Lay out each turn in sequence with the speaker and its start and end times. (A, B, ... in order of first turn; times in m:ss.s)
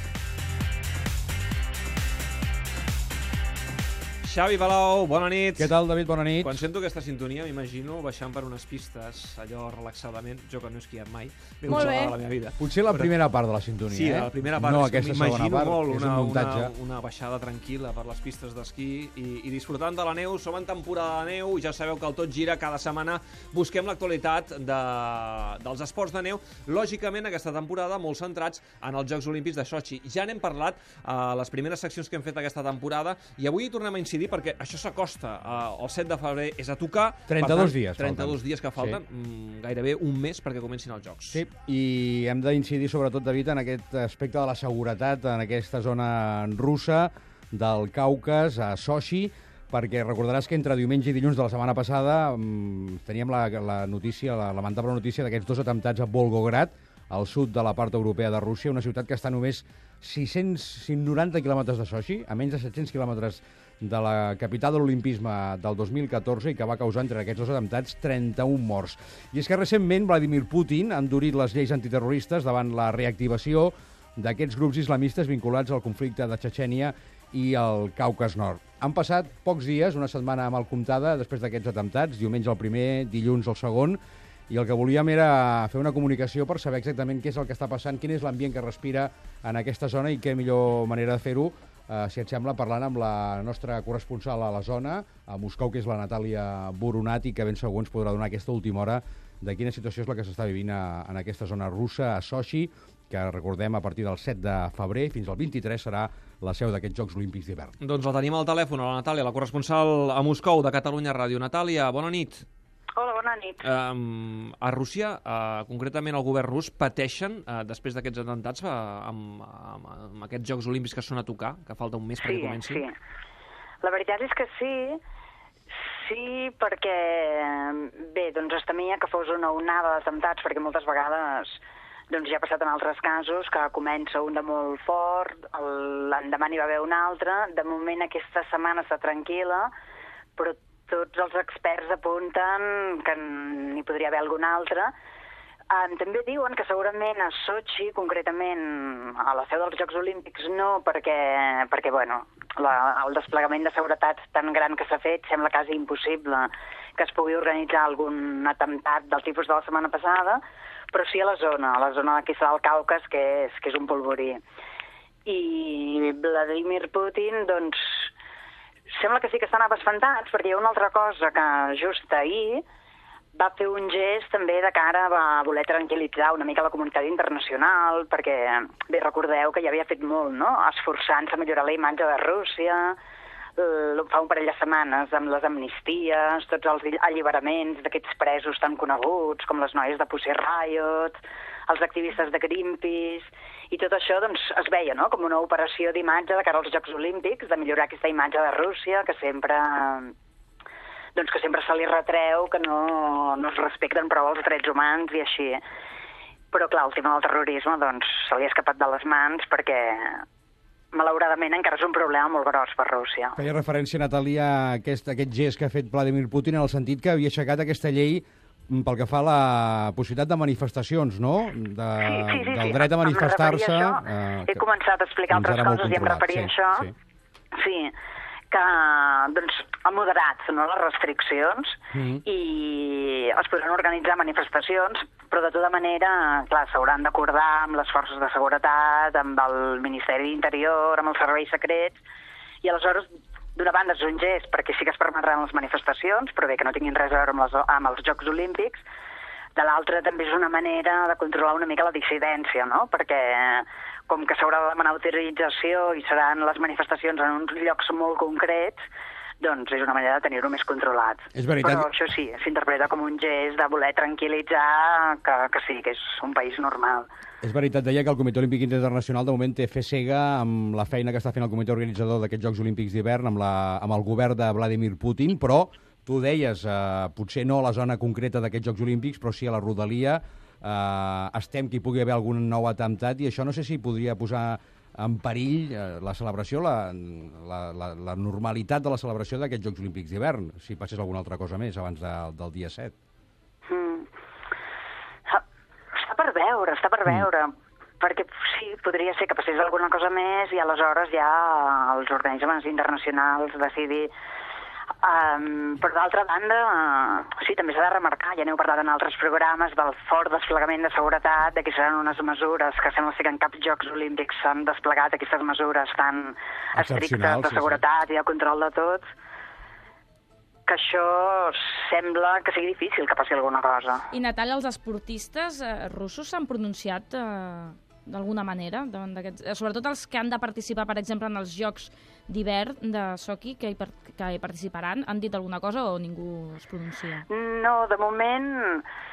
0:04.2-0:05.7 A
0:05.6-0:06.6 B
0:06.4-0:13.1 A
0:11.7-0:12.2 C
0:12.6-0:16.7 B
0:13.9-0:41.4 A
0:37.3-0:39.0 B
0:41.3-1:24.0 B
1:24.5-1:47.7 B
1:47.8-1:52.4 A
1:53.0-1:53.6 D
1:53.6-2:02.8 A
2:02.2-2:02.9 D
2:03.8-2:05.0 D
2:05.9-2:11.6 D
2:12.1-2:19.7 D
2:20.4-2:24.9 D
2:25.7-2:40.4 D
2:40.9-2:44.4 D
2:45.3-2:48.0 D
2:48.9-2:52.6 D
2:53.4-3:03.0 D
3:03.6-3:20.1 D
3:21.2-3:25.6 D
3:26.5-3:30.2 D
3:30.9-3:33.4 D
3:33.4-3:44.6 B
3:42.0-3:46.9 D
3:45.3-3:46.9 B
3:47.6-3:47.9 D
3:48.5-4:02.0 D
3:51.9-3:52.2 B
4:02.6-4:08.8 D
4:09.6-4:18.8 D
4:19.4-4:27.1 D
4:21.3-4:21.9 B
4:27.4-4:52.9 B
4:53.7-4:54.1 D
4:56.0-5:04.1 D
5:05.0-5:19.1 D
5:16.8-5:17.8 B
5:20.7-5:24.1 D
5:24.1-5:37.3 C
5:37.3-5:38.8 D